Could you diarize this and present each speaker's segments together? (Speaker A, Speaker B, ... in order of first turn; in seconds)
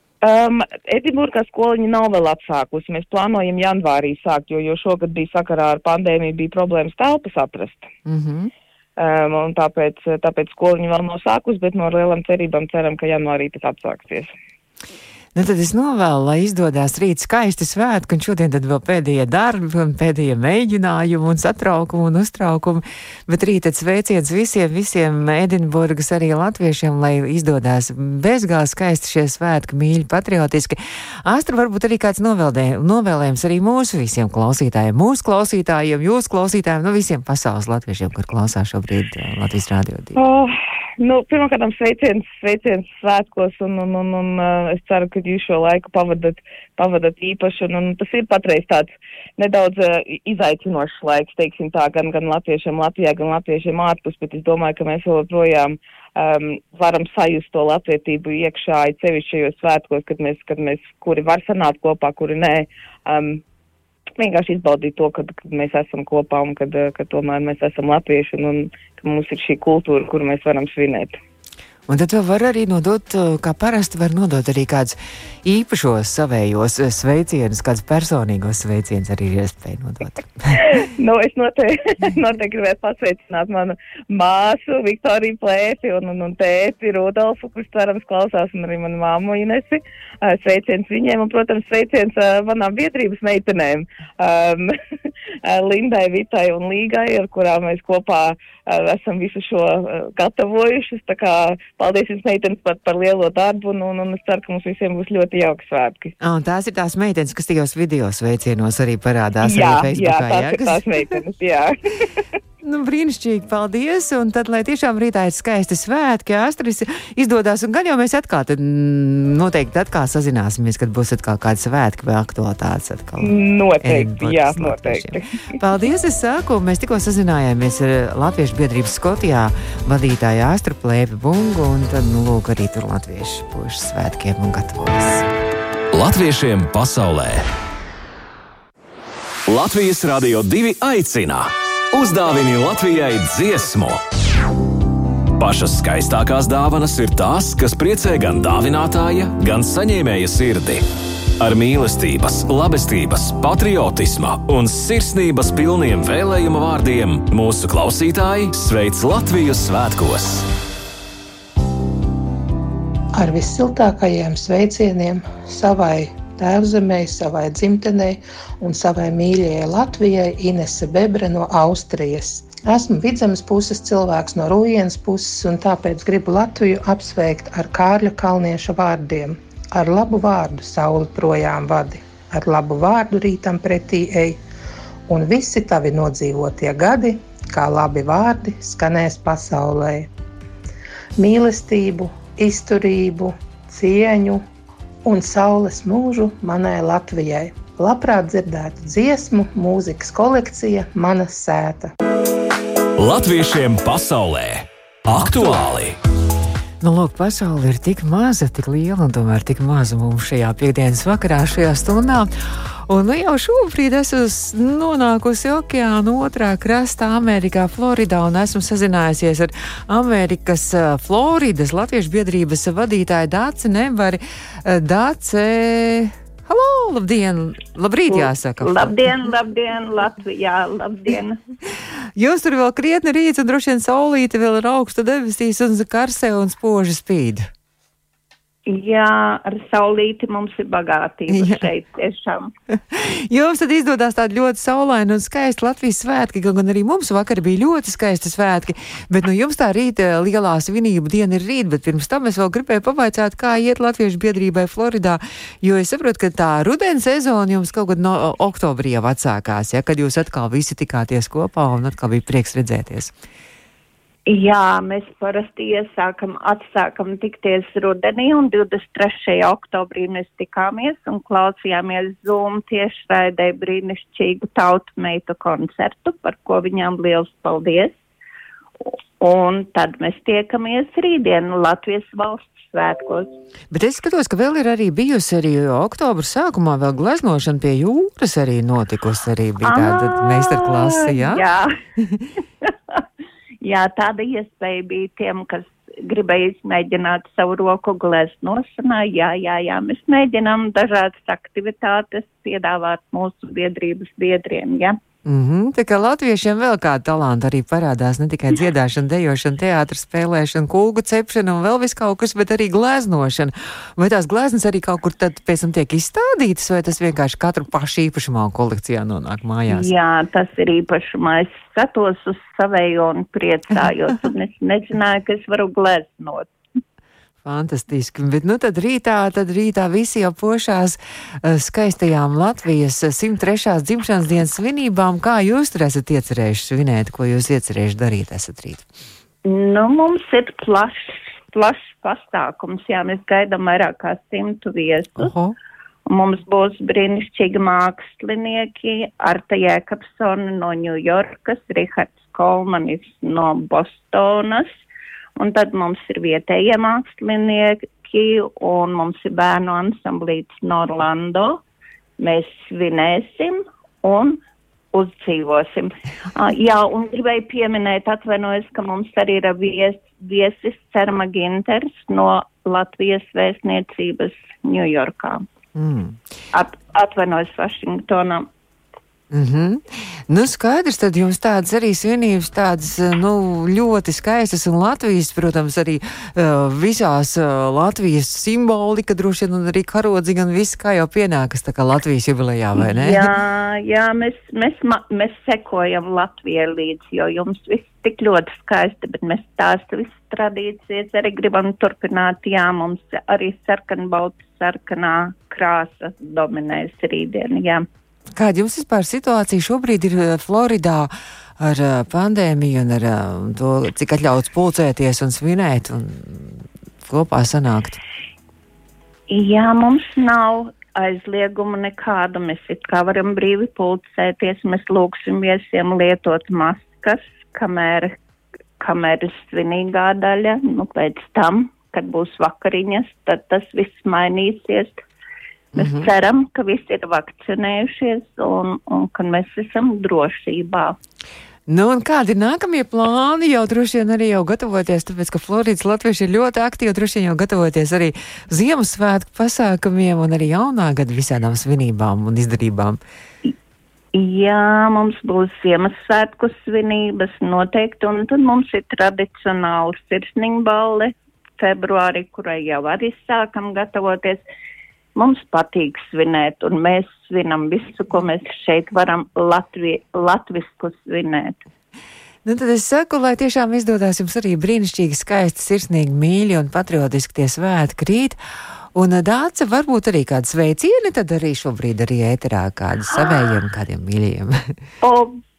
Speaker A: 0.2-7.9, 9.0-14.3, 40.2-63.4, 64.2-71.2, 80.5-94.8, 95.4-106.1, 109.4-112.2, 123.2-125.3
Speaker B: 8.1-8.5, 15.3-40.2, 71.9-80.6, 106.2-111.2, 112.6-135.3, 206.8-212.3, 212.9-229.1, 232.2-237.5, 241.3-241.7, 242.8-263.1, 283.7-291.4, 292.0-292.3, 305.2-319.9, 327.4-338.9, 345.2-345.6, 375.8-376.2, 379.3-393.3, 408.4-418.0, 435.8-436.1, 441.7-453.0, 472.4-478.4, 478.9-484.6
Speaker C: 135.9-137.5, 139.5-144.0, 145.4-150.8, 151.4-160.4, 203.0-206.0
Speaker D: 163.2-184.4, 185.1-190.1, 191.2-194.4, 195.1-201.9
Speaker E: 228.1-231.4, 238.7-242.5, 264.3-278.0, 278.9-283.3, 289.6-291.7, 293.6-305.0, 319.7-326.5, 339.4-345.3, 346.1-354.7, 355.4-361.6, 362.2-364.4, 364.9-375.4, 376.5-378.5, 392.8-407.9, 419.3-428.2, 428.8-435.0, 435.8-441.0, 454.1-464.4, 465.2-471.6, 483.1-483.6, 485.0-485.4